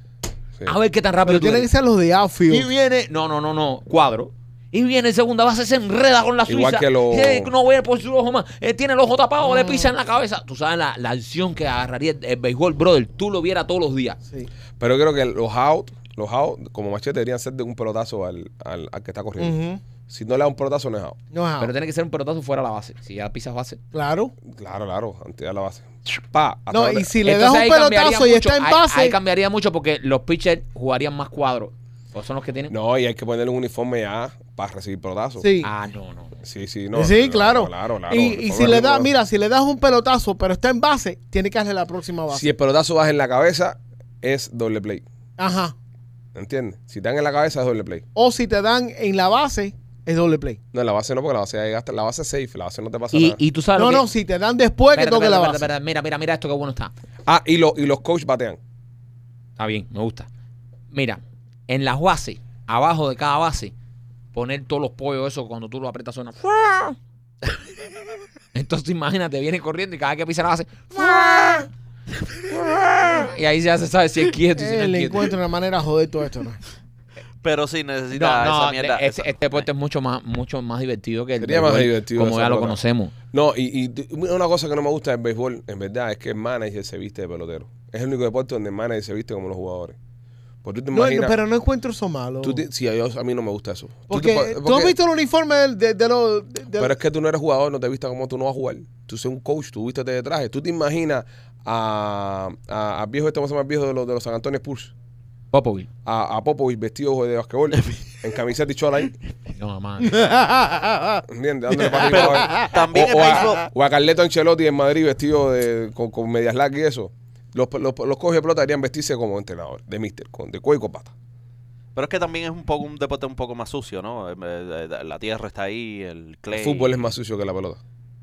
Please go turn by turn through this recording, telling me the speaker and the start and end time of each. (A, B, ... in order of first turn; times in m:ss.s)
0:00.7-0:01.7 A
0:01.2-0:02.7 B
0:02.5-0:14.2 A
0:06.5-0:07.5 C
0:09.4-0:10.0 B
0:14.8-0:19.6 C
0:19.4-0:19.8 B
0:20.1-0:21.2 C
0:21.3-0:21.7 B
0:21.6-0:23.8 A
0:23.9-0:24.3 B
0:24.5-0:27.1 C
0:26.7-0:29.2 B
0:27.2-0:32.7 A
0:32.7-0:35.5 C
0:35.4-0:35.7 B
0:35.6-0:36.4 A
0:36.4-0:39.1 C
0:36.9-0:42.5 B
0:42.3-0:45.0 C
0:45.4-0:45.8 B
0:46.4-0:48.0 C
0:48.2-0:50.6 B
0:50.7-0:53.4 C
0:53.1-0:54.0 A
0:53.8-0:55.7 B
0:54.9-0:56.9 A
0:57.3-0:58.6 C
0:59.6-1:00.3 A
1:00.9-1:03.7 A
1:04.3-1:07.0 A
1:08.5-1:11.7 A
1:12.5-1:15.3 A
1:14.6-1:16.6 B
1:17.4-1:19.6 D
1:18.1-1:23.1 A
1:21.4-1:22.8 C
1:23.3-1:30.0 C
1:30.6-1:31.4 C
1:30.9-1:32.6 B
1:32.4-1:35.0 C
1:34.1-1:37.0 B
1:36.8-1:44.9 C
1:45.5-1:45.9 A
1:46.0-1:49.2 C
1:49.5-1:50.2 A
1:50.0-1:51.2 B
1:51.3-2:01.1 C
1:51.7-1:53.6 B
1:52.0-1:53.7 D
2:02.0-2:07.0 D
2:06.5-2:07.8 C